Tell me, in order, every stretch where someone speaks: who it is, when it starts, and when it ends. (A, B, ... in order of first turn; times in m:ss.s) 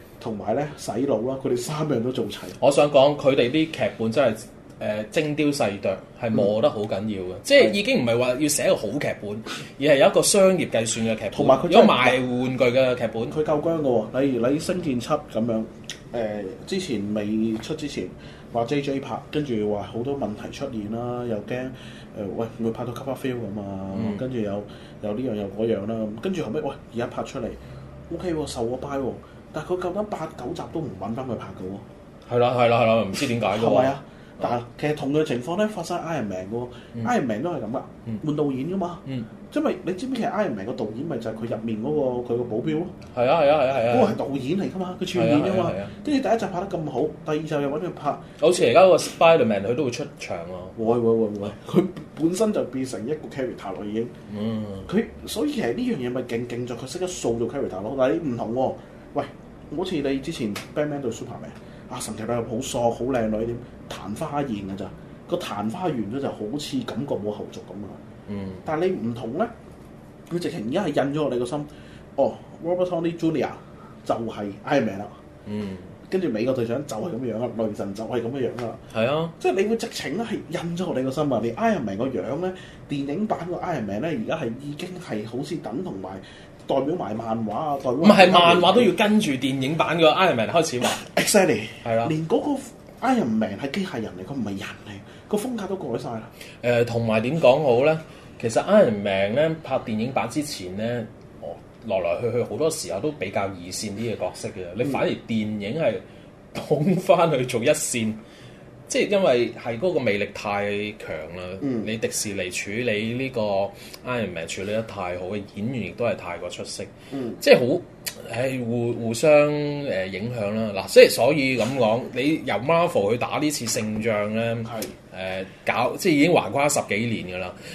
0:00.2-0:02.6 A
0:02.6-0:13.4 B
0:11.3-0:12.2 A
0:13.3-0:31.8 A
0:23.9-0:24.2 B
0:32.3-0:34.5 B
0:33.5-0:42.9 A
0:43.1-0:44.2 B
0:43.9-0:48.2 A
0:45.1-0:45.9 B
0:48.4-0:50.8 B
0:50.8-0:54.1 A
0:54.3-0:54.9 B
0:54.9-1:08.0 A
1:08.3-1:08.6 B
1:08.6-1:09.5 A
1:10.3-1:15.1 A
1:15.4-1:15.9 B
1:16.1-1:18.8 A
1:18.9-1:19.3 B
1:19.4-1:28.9 A
1:28.0-1:31.0 B
1:31.0-1:36.3 A
1:31.8-1:32.1 B
1:36.6-1:46.0 B
1:46.5-1:48.2 B
1:48.9-2:07.5 B
1:51.6-1:51.9 A
1:57.1-1:57.4 A
2:04.6-2:04.9 A